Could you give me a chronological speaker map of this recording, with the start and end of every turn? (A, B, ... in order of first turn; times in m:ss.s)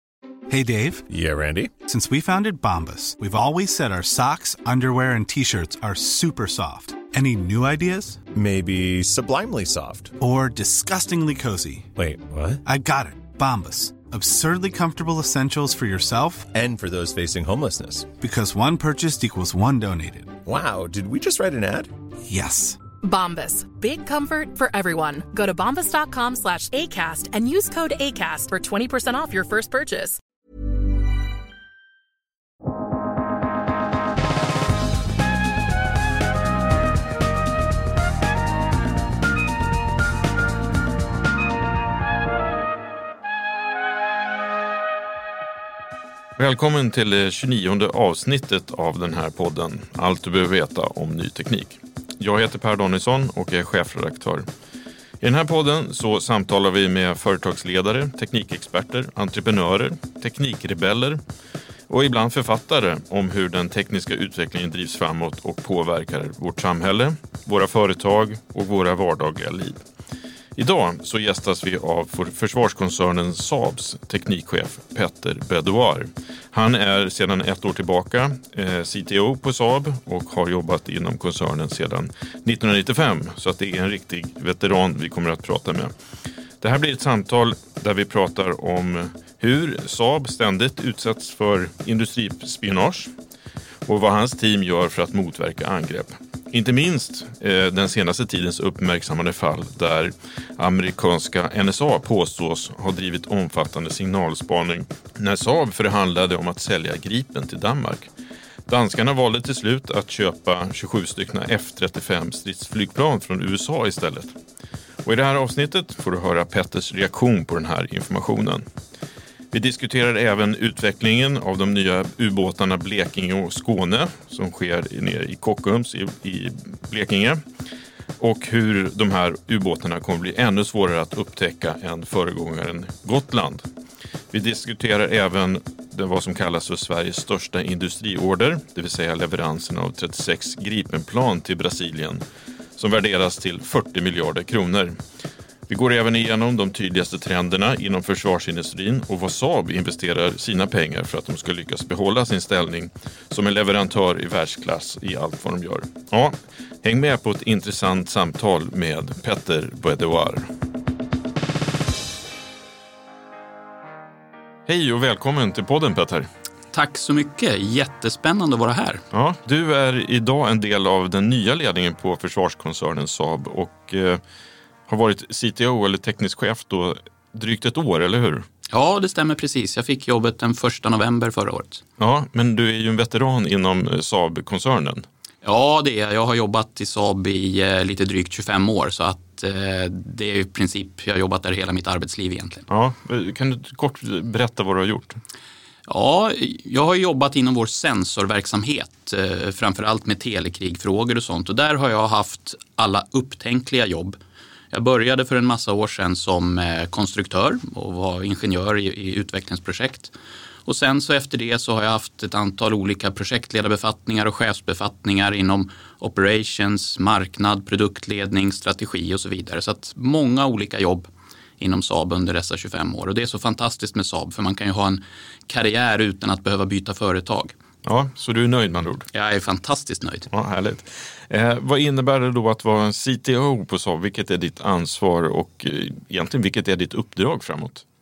0:00.5-0:01.0 A
0:01.1-0:01.8 B
0:01.8-0:08.2 A
0:08.3-0:10.2 B
0:10.2-0:11.9 A
0:12.0-0:12.6 B
0:12.6-0:16.5 A
0:16.5-0:18.2 B
0:18.2-0:20.4 A
0:20.4-0:21.9 B
0:22.3-0:22.8 A
0:23.0-0:30.2 C
0:46.4-0:54.5 D
0:55.2-1:01.2 D
1:01.9-1:09.8 D
1:10.6-1:25.9 D
1:26.6-1:33.1 D
1:33.9-1:48.1 D
1:48.7-1:54.3 D
1:55.0-1:58.6 D
1:59.5-2:07.4 D
2:08.2-2:13.7 D
2:14.3-2:22.2 D
2:22.8-2:25.0 D
2:25.7-2:40.5 D
2:44.7-2:46.3 D
2:46.7-2:49.0 E
2:49.1-2:54.2 D
2:54.9-2:58.5 D
2:58.7-3:01.8 E
3:02.0-3:05.1 D
3:05.4-3:12.7 E
3:12.7-3:15.2 D
3:15.9-3:24.2 E
3:24.7-3:30.1 E
3:30.7-3:41.1 E
3:41.6-3:47.5 E
3:47.8-3:49.1 D
3:49.1-3:50.3 E
3:50.3-3:57.8 D